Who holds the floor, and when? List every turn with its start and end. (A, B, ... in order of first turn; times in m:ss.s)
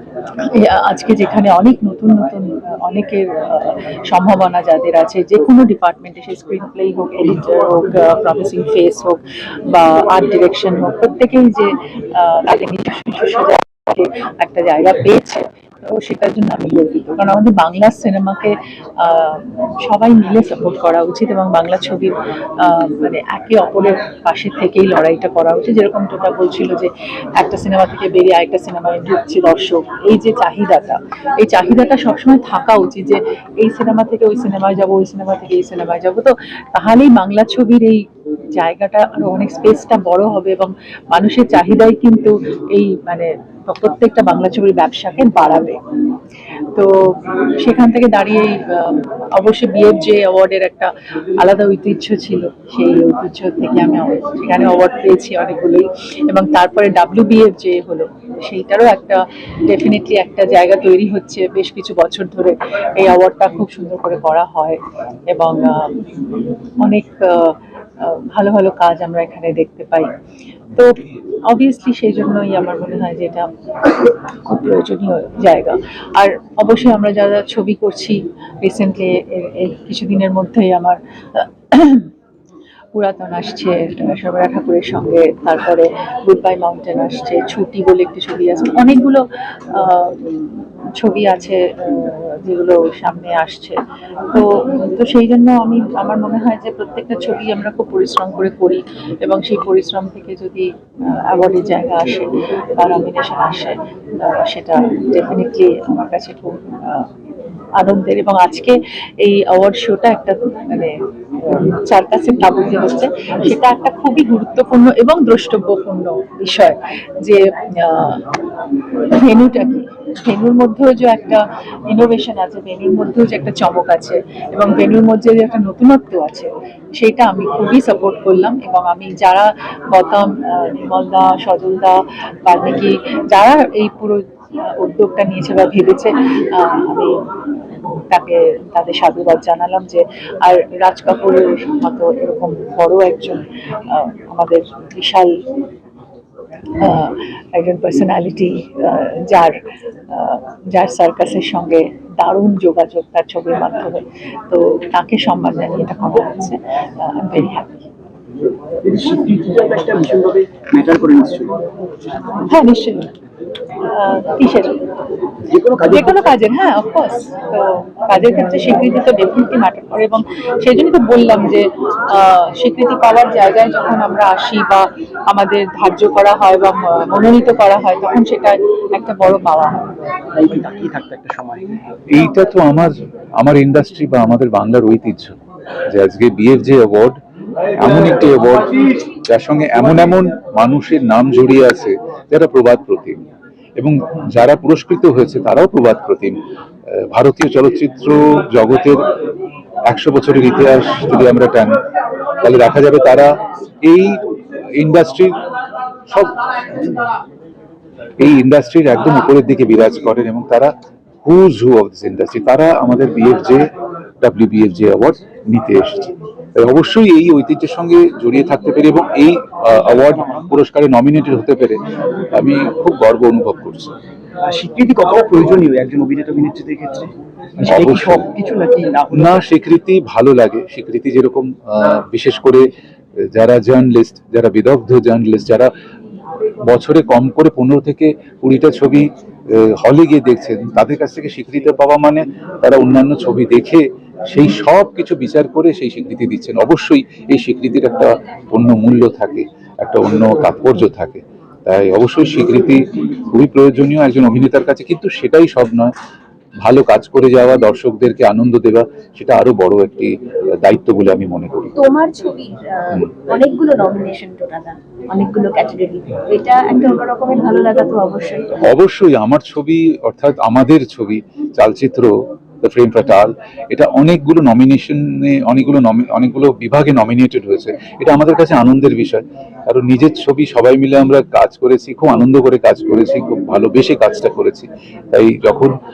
0:00.4-0:45.8 A
0:46.7-1:06.1 A
1:06.8-1:10.1 A
1:10.8-1:22.1 A
1:22.9-1:33.8 A
1:34.3-1:47.1 A
1:47.8-1:58.4 A
1:59.1-2:17.2 A
2:18.1-2:25.3 A
2:26.8-2:29.6 A
2:30.1-2:37.9 A
2:38.8-2:41.5 B
2:42.5-2:43.1 A
2:43.9-2:44.8 A
2:45.5-2:46.2 B
2:45.9-2:59.9 A
3:00.3-3:01.7 B
3:02.1-3:05.4 C
3:05.9-3:07.2 C
3:07.8-3:13.2 C
3:13.8-3:16.4 C
3:17.1-3:19.0 C
3:19.9-3:21.8 C
3:22.4-3:24.2 C
3:24.8-3:25.3 C
3:26.1-3:26.9 C
3:28.2-3:30.7 C
3:31.2-3:33.6 C
3:34.2-3:41.8 C
3:39.8-3:40.6 B
3:42.3-3:43.9 C
3:44.4-3:49.5 B
3:47.6-3:48.3 C
3:49.1-3:52.7 C
3:53.4-3:55.7 C
3:56.6-3:59.0 C
3:59.6-4:12.8 C
4:13.3-4:15.9 C
4:16.6-4:21.7 C
4:21.8-4:28.5 D
4:28.6-4:32.1 C
4:32.6-4:45.7 C